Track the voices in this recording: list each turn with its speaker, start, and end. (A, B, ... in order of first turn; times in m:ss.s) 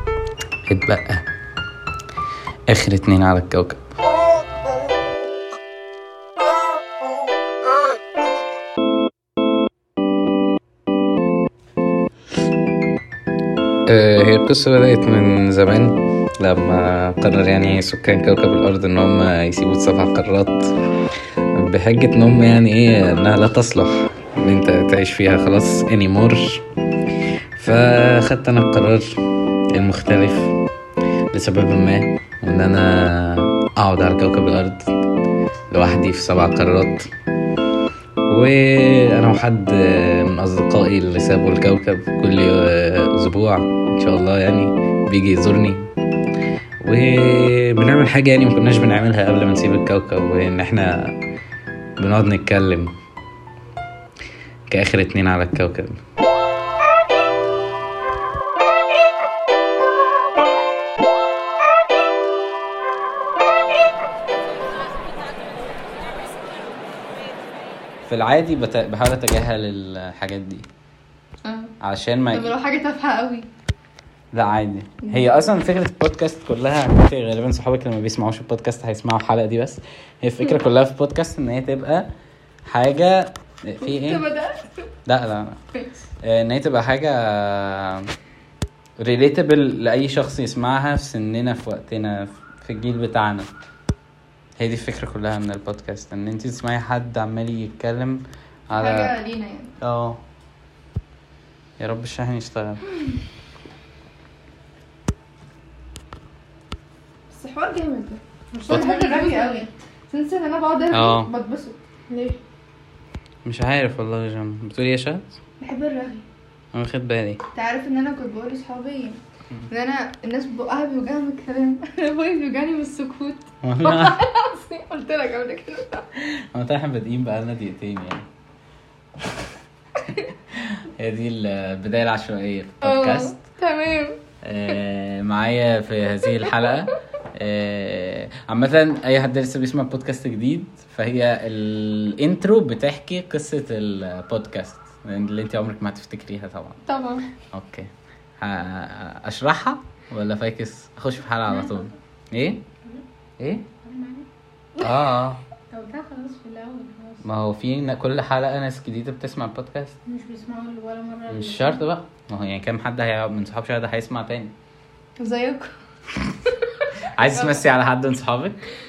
0:00.7-0:01.3 A
0:02.7-0:03.9 A
0:13.9-0:20.7 A
0:21.6-0:26.6 A
0:27.6-0:29.1 A
0:29.7-0:30.6 A
0:31.3-0:34.9 A
0:35.7-0:37.1 A
0:38.3-0:45.9 A
0:46.8-0:51.2 A
0:52.0-0:52.9 A
0:54.7-0:56.0 A
1:08.1-1:10.7 A
1:11.4-1:11.7 B
1:11.8-1:12.5 A
1:12.3-1:13.5 B
1:14.3-1:22.1 A
1:15.0-1:15.4 B
1:22.7-1:24.2 A
1:23.8-1:24.9 B
1:25.1-1:25.6 A
1:25.7-1:26.1 B
1:26.2-1:28.1 A
1:29.0-1:33.5 A
1:34.6-1:39.1 A
1:38.8-1:39.7 B
1:39.8-1:40.2 A
1:41.8-1:42.8 A
1:47.3-1:51.8 B
1:48.5-1:49.7 C
1:50.9-1:51.3 A
1:52.1-1:52.4 C
1:53.4-1:55.4 A
1:55.6-1:56.2 B
1:56.7-1:57.4 A
1:57.5-2:06.1 B
2:03.6-2:04.2 A
2:06.2-2:08.2 A
2:10.5-2:13.3 A
2:12.8-2:14.2 B
2:14.4-2:26.8 A
2:26.8-2:27.2 B
2:27.5-2:32.6 A
2:31.5-2:31.9 C
2:33.4-2:33.7 A
2:33.8-2:34.3 C
2:34.8-2:35.4 A
2:35.7-2:37.2 C
2:37.2-2:40.0 A
2:40.1-2:41.8 C
2:41.3-2:44.5 A
2:45.2-2:45.7 B
2:47.1-2:48.6 A
2:47.3-2:47.6 B